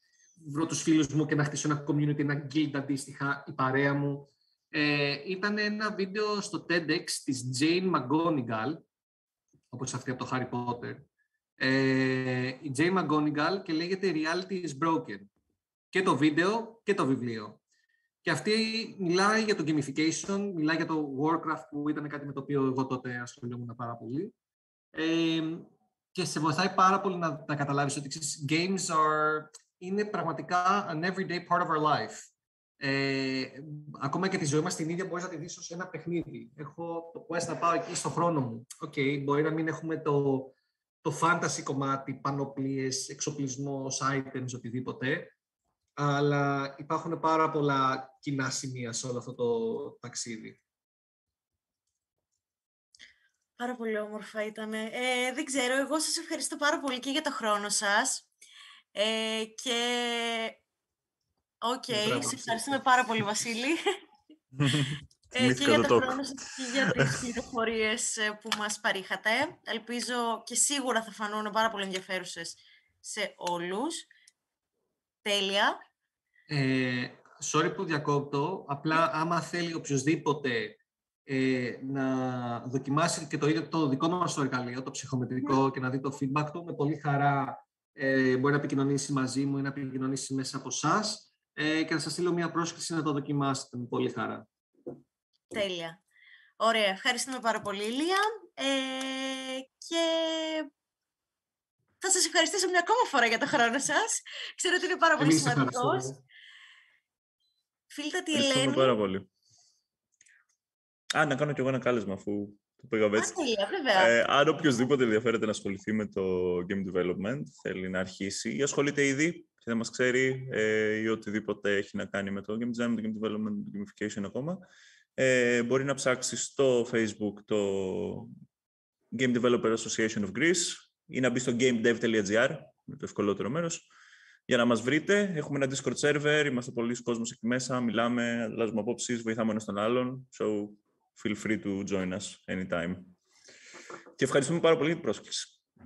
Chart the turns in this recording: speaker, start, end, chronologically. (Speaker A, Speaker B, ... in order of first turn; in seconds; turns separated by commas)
Speaker A: 0.5-8.8, Speaker A: 9.7-11.1, Speaker A: 11.6-15.3, Speaker A: 15.9-17.6, Speaker A: 18.2-24.3, Speaker A: 24.9-45.3, Speaker A: 46.0-50.6, Speaker B: 53.6-58.3, Speaker B: 58.9-60.6, Speaker B: 61.6-63.8, Speaker A: 61.9-62.8, Speaker C: 64.5-66.2, Speaker B: 65.3-74.1, Speaker B: 75.2-75.8, Speaker A: 76.5-94.5, Speaker B: 95.5-96.0, Speaker B: 96.6-100.7, Speaker B: 102.0-106.1, Speaker A: 105.2-106.2, Speaker B: 107.9-109.0, Speaker C: 108.3-109.3, Speaker C: 111.2-113.3, Speaker B: 113.2-114.1, Speaker C: 114.0-124.6, Speaker C: 125.2-128.3, Speaker C: 129.1-133.9, Speaker C: 134.5-143.2, Speaker C: 144.2-145.6